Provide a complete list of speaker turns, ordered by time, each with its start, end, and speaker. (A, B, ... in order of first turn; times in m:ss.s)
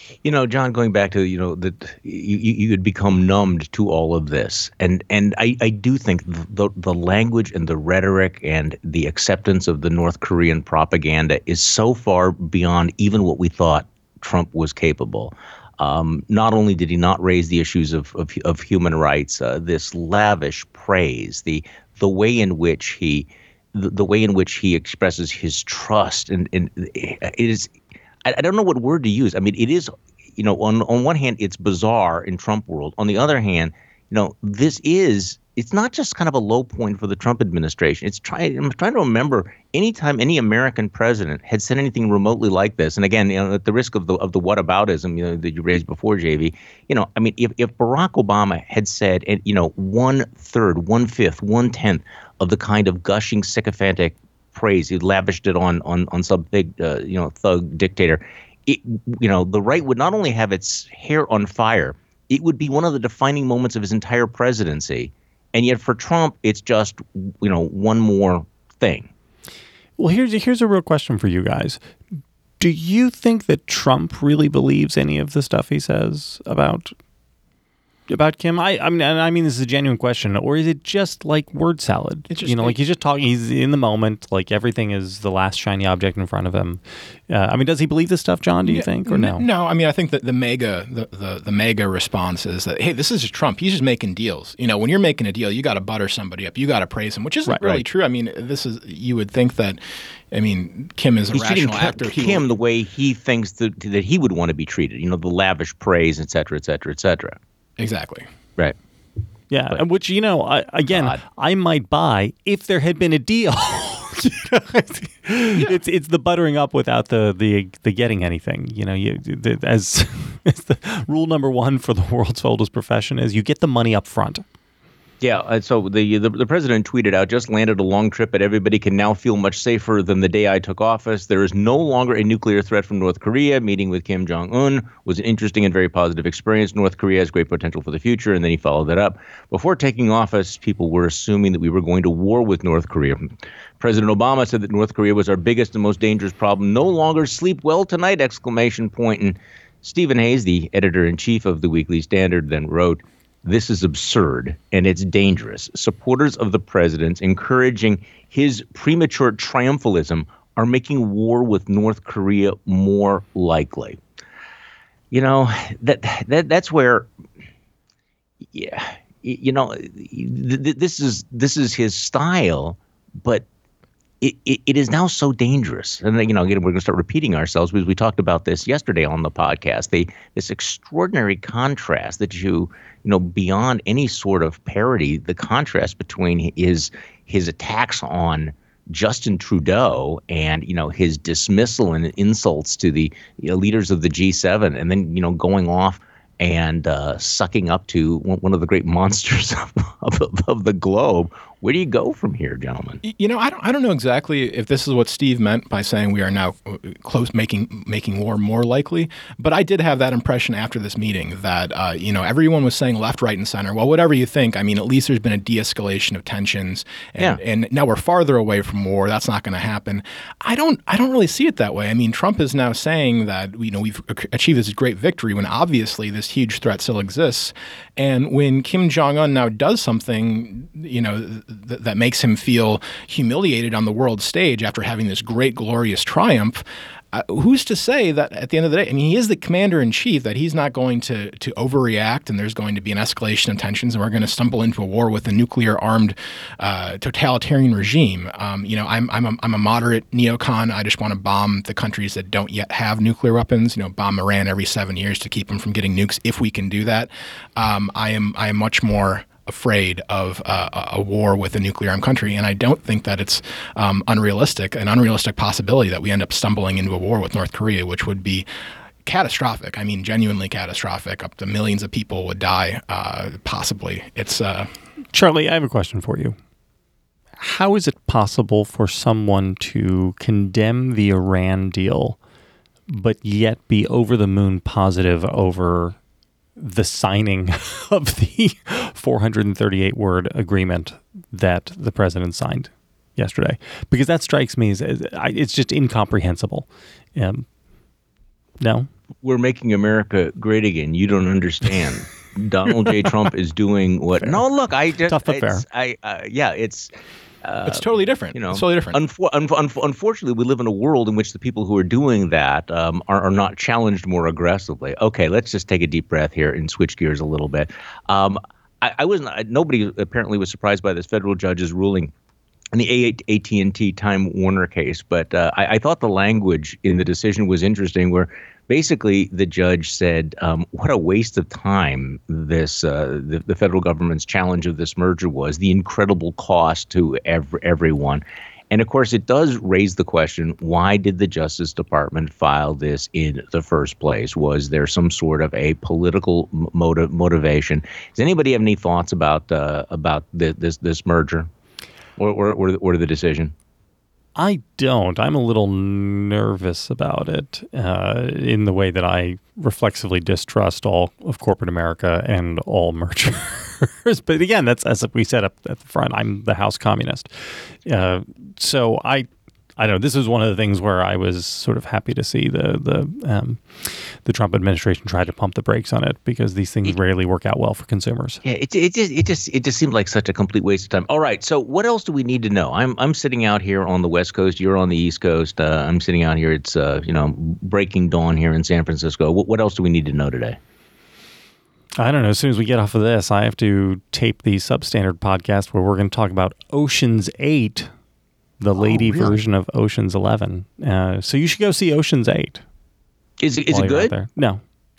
0:00.2-0:27.7 A
0:28.2-1:09.1 A
1:10.0-1:11.8 B
1:12.6-1:16.9 B
1:18.1-1:29.4 B
1:22.3-1:22.8 C
1:28.7-1:39.8 C
1:40.3-1:42.4 C
1:41.3-1:47.4 A
1:47.8-1:48.3 C
1:49.5-2:04.4 B
1:50.9-1:51.2 A
2:05.2-2:44.0 A
2:45.1-2:47.1 A
2:48.5-2:53.4 A
2:54.2-3:23.0 A
3:23.0-3:56.6 C
3:57.1-4:28.5 C
4:29.0-4:34.7 C
4:35.1-4:36.4 B
4:37.4-4:42.2 B
4:42.9-4:46.0 B
4:46.6-4:57.5 B
4:58.6-4:58.9 B
4:59.2-5:06.9 A
5:05.1-5:05.6 B
5:07.4-5:22.1 A
5:07.6-5:09.0 C
5:22.7-5:51.5 A
5:52.2-5:53.5 A
5:54.4-6:09.3 B
6:09.8-6:18.4 B
6:18.4-6:30.6 A
6:32.0-6:37.9 B
6:38.6-6:42.6 B
6:38.8-6:39.4 A
6:43.4-6:44.1 A
6:43.7-6:44.6 B